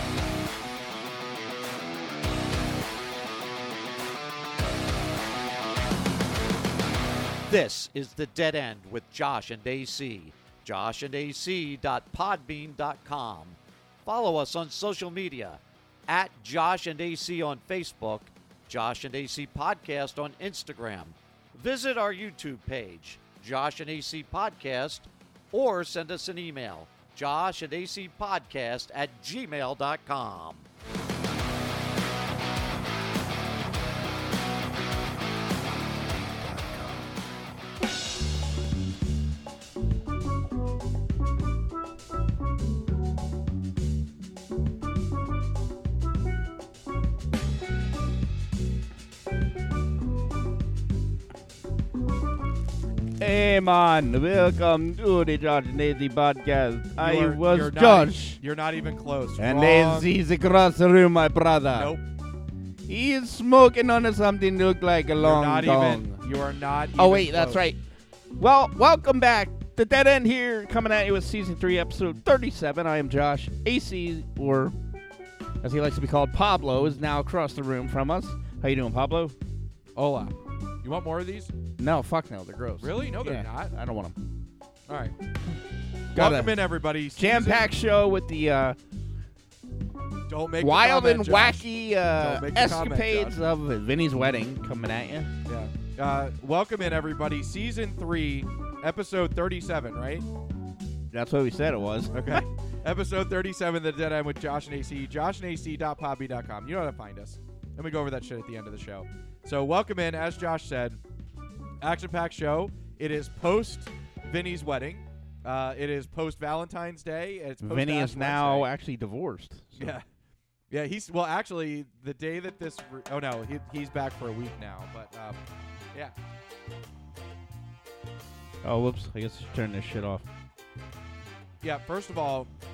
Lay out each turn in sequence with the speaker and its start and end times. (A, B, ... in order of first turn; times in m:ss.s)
0:07.5-0:30.7 A
0:53.2-0:58.4 B
0:57.0-1:00.1 C
0:59.4-1:02.0 B
1:01.7-1:02.0 C
1:02.8-1:06.2 B
1:05.2-1:07.6 C
1:07.0-1:07.8 B
1:08.4-1:14.8 B
1:15.6-1:19.4 B
1:20.0-1:21.5 C
1:21.8-1:24.2 B
1:22.8-1:23.7 C
1:24.9-1:25.1 C
1:26.1-1:28.8 B
1:26.1-1:27.7 C
1:30.3-1:33.4 C
1:30.6-1:35.3 B
1:35.4-1:40.2 C
1:41.1-1:42.4 B
1:42.1-1:51.0 C
1:51.8-1:58.7 C
1:57.6-2:00.0 B
1:59.8-2:00.0 C
2:00.7-2:05.4 C
2:08.6-2:10.2 B
2:11.6-2:12.5 C